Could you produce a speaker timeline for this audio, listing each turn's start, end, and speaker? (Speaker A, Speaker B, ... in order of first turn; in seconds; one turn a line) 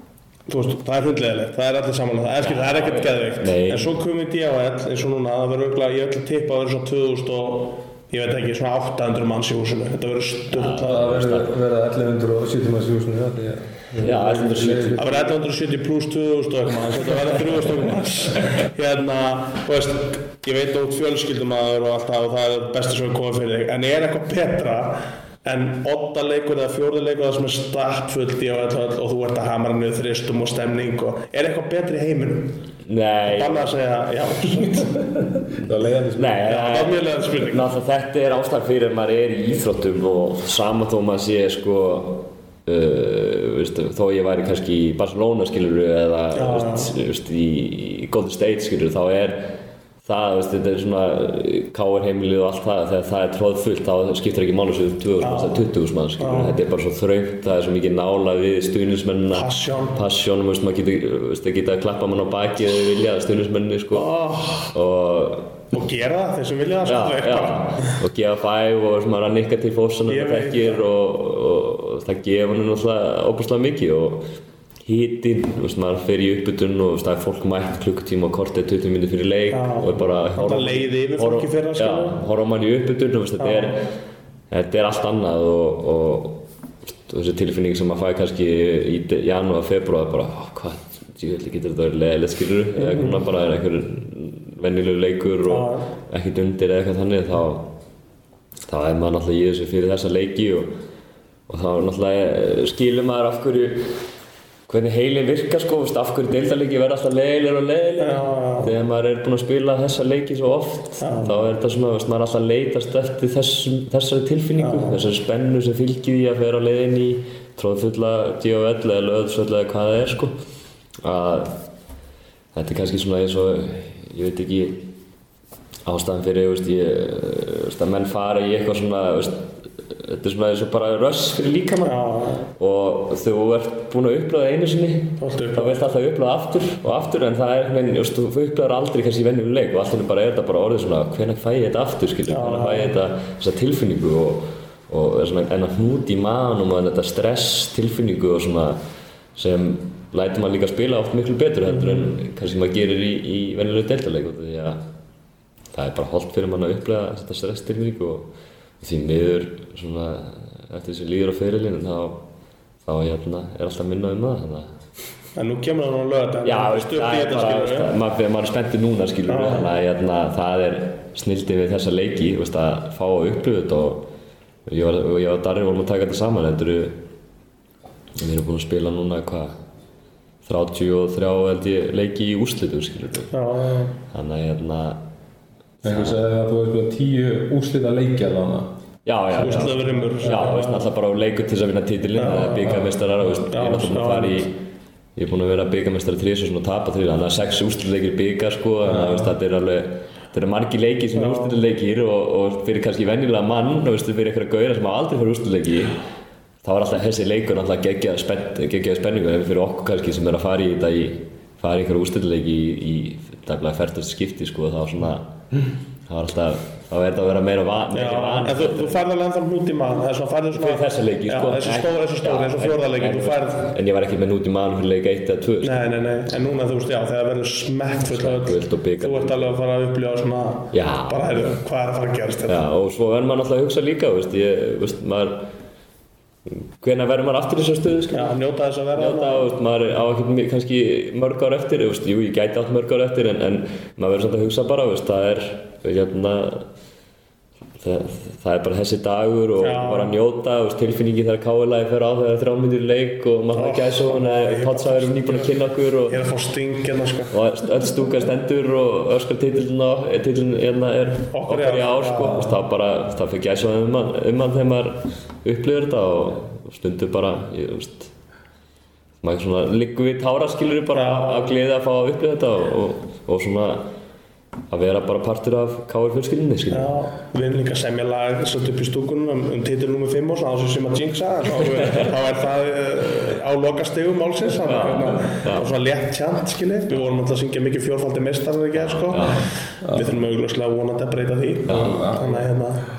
Speaker A: 0.5-11.1
Speaker B: 2.4-4.0
Speaker B: 10.5-11.5
Speaker C: 10.8-15.1
Speaker B: 14.0-15.3
Speaker A: 14.9-32.6
Speaker B: 32.9-33.7
Speaker A: 33.3-35.0
Speaker C: 34.7-36.4
Speaker B: 35.6-64.1
Speaker A: 36.4-37.7
Speaker A: 46.3-46.9
Speaker A: 55.2-55.6
Speaker A: 56.2-56.6
Speaker A: 59.3-60.0
Speaker A: 63.9-64.7
Speaker B: 64.7-65.6
Speaker A: 65.7-67.9
Speaker B: 66.8-74.3
Speaker A: 70.1-70.8
Speaker B: 74.8-83.9
Speaker A: 79.5-82.2
Speaker A: 83.4-83.7
Speaker B: 84.5-86.4
Speaker B: 87.0-97.7
Speaker A: 92.8-93.2
Speaker A: 95.5-95.9
Speaker B: 98.7-100.7
Speaker B: 101.5-103.9
Speaker B: 104.7-120.4
Speaker A: 108.0-108.7
Speaker A: 111.0-111.4
Speaker A: 114.6-115.0
Speaker B: 121.0-121.6
Speaker B: 122.5-124.9
Speaker B: 125.8-132.0
Speaker A: 131.8-132.4
Speaker B: 132.6-148.8
Speaker A: 135.2-135.8
Speaker A: 142.3-142.9
Speaker B: 149.3-154.8
Speaker B: 155.7-158.3
Speaker B: 158.8-162.2
Speaker B: 162.8-164.7
Speaker A: 165.3-167.9
Speaker B: 166.4-174.1
Speaker A: 169.3-169.7
Speaker B: 174.7-177.0
Speaker B: 178.2-179.5
Speaker B: 180.4-183.3
Speaker A: 183.3-183.9
Speaker B: 184.1-185.0
Speaker B: 185.8-186.2
Speaker C: 185.8-188.7
Speaker B: 189.0-194.6
Speaker A: 189.3-190.9
Speaker A: 192.2-192.8
Speaker A: 193.5-194.4
Speaker B: 195.2-206.0
Speaker A: 198.9-199.3
Speaker A: 201.1-201.6
Speaker B: 206.6-215.4
Speaker B: 216.1-219.0
Speaker A: 217.9-223.7
Speaker B: 220.5-225.9
Speaker A: 225.6-232.6
Speaker B: 228.1-229.6
Speaker B: 230.7-231.6
Speaker B: 232.4-235.5
Speaker B: 236.5-238.3
Speaker A: 238.1-239.5
Speaker B: 238.9-246.7
Speaker B: 247.8-256.2
Speaker A: 249.6-250.1
Speaker A: 253.5-255.5
Speaker A: 256.1-257.3
Speaker B: 257.3-268.1
Speaker A: 261.3-262.6
Speaker B: 269.2-273.9
Speaker A: 270.9-271.5
Speaker B: 274.7-277.0
Speaker A: 276.7-292.8
Speaker B: 281.8-282.1
Speaker B: 284.6-285.7
Speaker B: 288.8-289.5
Speaker C: 289.8-290.1
Speaker C: 291.7-292.5
Speaker B: 291.7-292.0